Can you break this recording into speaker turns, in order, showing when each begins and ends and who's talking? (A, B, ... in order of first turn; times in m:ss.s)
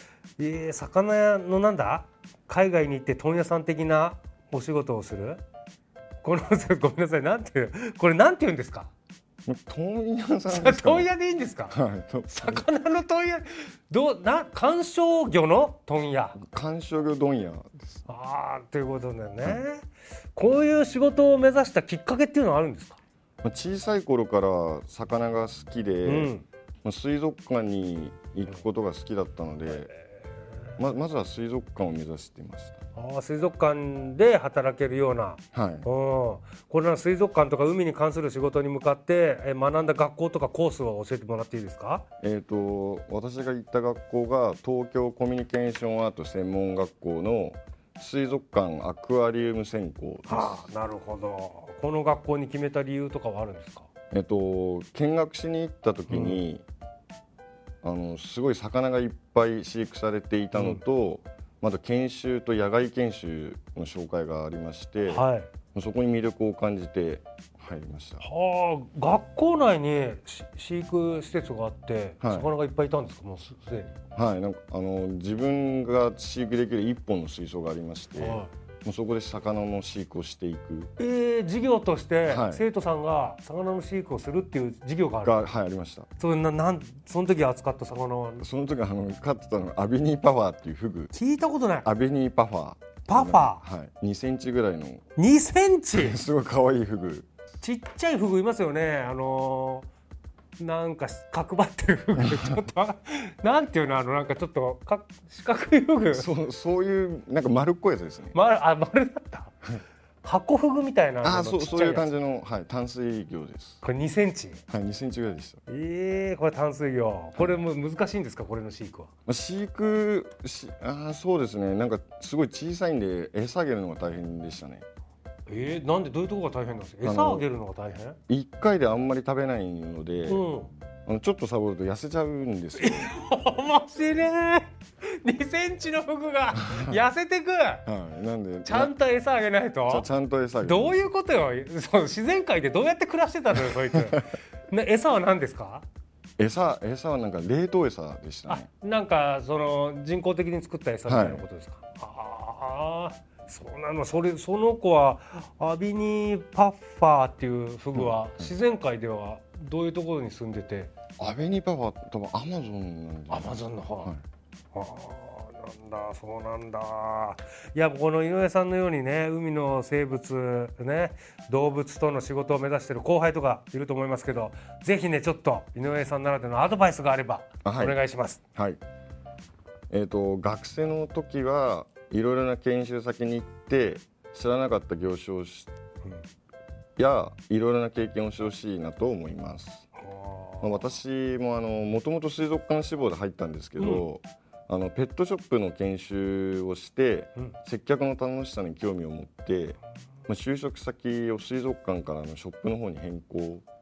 0:00.4-0:05.4 A
0:06.2-0:08.9 A
0:09.5-0:11.1 B
0:10.5-0:11.8 A
0:11.7-0:12.6 B
0:12.3-0:16.4 A
0:16.4-0:18.0 B
0:18.1-0:23.0 A
0:23.4-0:26.3 B
0:26.0-0:26.4 A
0:26.8-0:29.9 B
0:30.8-0:32.8 B
0:32.9-0:42.0 A
0:35.5-0:35.9 B
0:42.2-0:50.7 B
0:50.3-0:53.9 A
0:54.1-0:56.6 B
0:56.1-0:56.4 A
0:57.8-1:08.2 B
1:00.5-1:00.8 A
1:05.1-1:05.5 A
1:08.2-1:14.0 A
1:12.2-1:12.5 B
1:14.1-1:20.9 B
1:18.2-1:18.5 A
1:21.0-1:25.4 A
1:22.3-1:22.6 B
1:25.2-1:26.1 B
1:26.2-1:28.4 A
1:28.4-1:31.1 B
1:31.1-1:31.9 A
1:31.8-1:35.0 B
1:33.1-1:33.6 A
1:35.2-1:36.2 A
1:35.9-1:37.3 B
1:37.6-1:39.9 A
1:40.6-1:46.3 A
1:42.2-1:42.6 B
1:46.1-1:48.4 B
1:48.3-1:49.5 A
1:50.2-1:52.1 A
1:51.2-1:53.8 B
1:53.8-1:54.6 A
1:54.7-1:55.6 B
1:55.7-1:59.1 A
1:59.3-2:04.8 B
2:05.5-2:08.2 A
2:07.0-2:07.5 B
2:08.3-2:10.4 B
2:10.3-2:10.7 A
2:11.0-2:13.2 B
2:12.8-2:17.8 A
2:16.6-2:17.0 B
2:17.8-2:18.9 B
2:18.6-2:20.0 A
2:19.9-2:21.0 B
2:20.6-2:25.8 A
2:26.4-2:28.7 B
2:28.5-2:40.9 A
2:31.0-2:31.4 B
2:38.0-2:38.5 B
2:41.2-2:44.2 B
2:43.3-2:44.1 A
2:44.7-2:58.4 A
2:57.6-2:58.0 B
2:58.5-2:58.8 B
2:59.9-3:05.7 B
3:07.0-3:09.9 B
3:10.0-3:10.9 A
3:10.6-3:23.6 B